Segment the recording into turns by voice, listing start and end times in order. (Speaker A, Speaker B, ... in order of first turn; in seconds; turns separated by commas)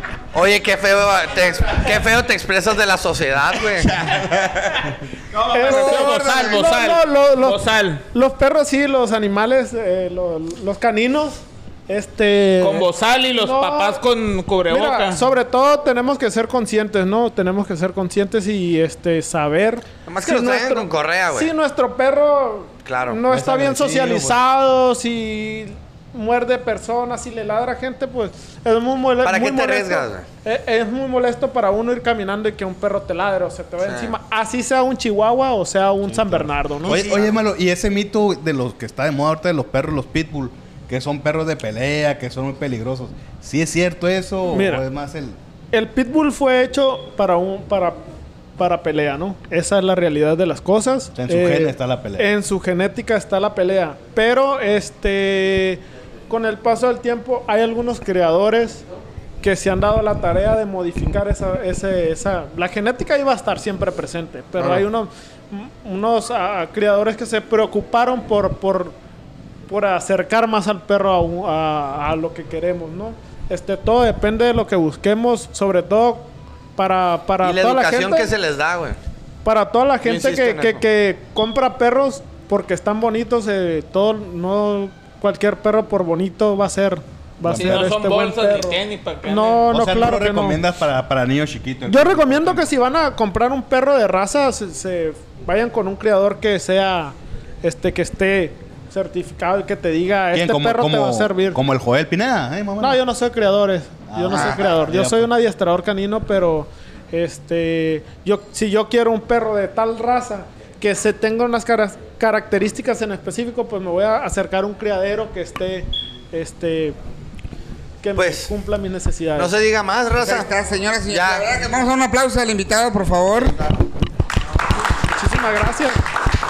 Speaker A: 0.3-3.9, Speaker B: 3.8-5.0, Speaker C: 5.4-14.0, Speaker B: 5.5-6.7, Speaker D: 5.6-8.0, Speaker D: 12.6-15.2, Speaker C: 14.7-37.3, Speaker A: 20.1-21.5, Speaker A: 22.9-23.2, Speaker E: 23.3-24.4, Speaker A: 29.2-30.3, Speaker A: 33.8-34.1, Speaker E: 36.1-45.4, Speaker C: 44.5-44.9, Speaker C: 45.7-48.0, Speaker C: 48.6-58.8, Speaker E: 51.1-52.3, Speaker C: 59.4-69.0, Speaker C: 69.7-78.3, Speaker A: 77.4-79.0, Speaker C: 79.5-90.6, Speaker A: 80.0-80.8, Speaker E: 87.4-88.0, Speaker D: 87.5-89.7, Speaker E: 89.7-92.7, Speaker C: 91.9-101.6, Speaker E: 100.3-103.0, Speaker C: 102.8-117.0, Speaker E: 104.1-105.3, Speaker C: 118.0-119.5, Speaker A: 118.2-118.5, Speaker A: 119.4-120.5, Speaker B: 120.2-123.6, Speaker A: 121.1-121.5, Speaker C: 125.1-126.0